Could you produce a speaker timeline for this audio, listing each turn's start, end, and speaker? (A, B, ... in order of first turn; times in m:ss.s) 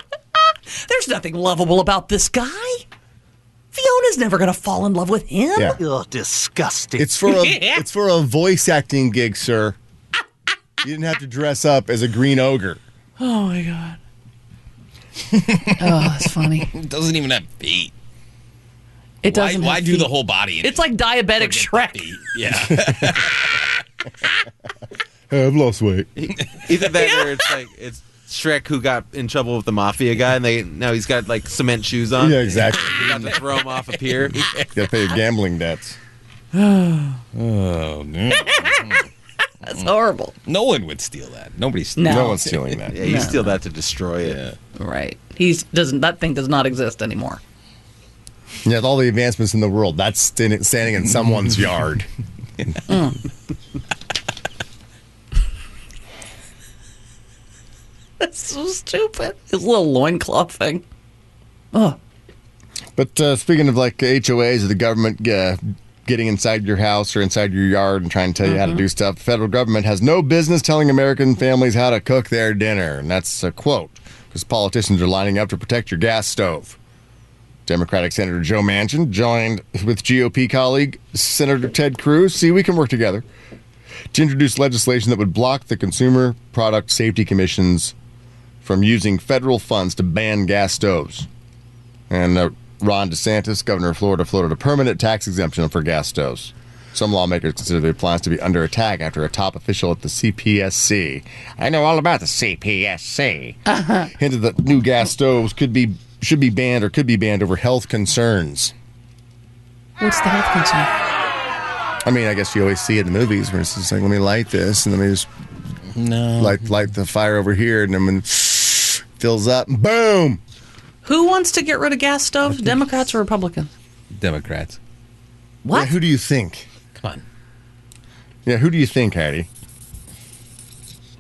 0:00.7-0:02.8 A
0:03.7-0:05.8 A
0:06.3-0:06.9 B
0:06.9-0:09.8 C
0:07.3-0:07.8 A
0:10.8-0:12.8 C
0:13.2-0:14.0 A
0:15.3-0:17.9 B
0:15.8-0:16.7 A
0:19.2-0:22.1 A
0:19.2-0:23.7 B
0:22.7-0:23.3 C
0:25.3-0:26.1 C
0:26.2-0:34.5 D
0:32.2-0:33.2 C
0:34.7-0:36.0 C
0:36.6-0:37.2 A
0:37.3-0:39.1 B
0:38.4-0:38.9 A
0:39.6-0:40.3 A
0:40.4-0:42.7 B
0:42.0-0:42.4 A
0:42.0-0:43.2 C
0:42.9-0:44.4 D
0:43.0-0:43.5 A
0:44.2-0:44.6 B
0:44.8-0:47.4 A
0:48.6-0:52.1 C
0:52.9-0:53.2 A
0:58.2-1:00.8 A
1:01.7-1:02.0 A
1:03.0-1:16.8 C
1:08.4-1:08.8 A
1:17.7-1:23.3 C
1:24.1-1:28.0 C
1:28.6-1:31.3 C
1:32.1-1:48.7 C
1:43.7-1:44.1 A
1:50.0-1:50.9 A
1:52.0-1:55.3 C
1:55.9-1:56.7 B
1:56.4-2:00.4 C
2:01.0-2:03.7 A
2:04.1-2:04.8 B
2:05.6-2:06.0 A
2:05.7-2:06.7 C
2:07.0-2:07.2 B
2:08.4-2:09.5 C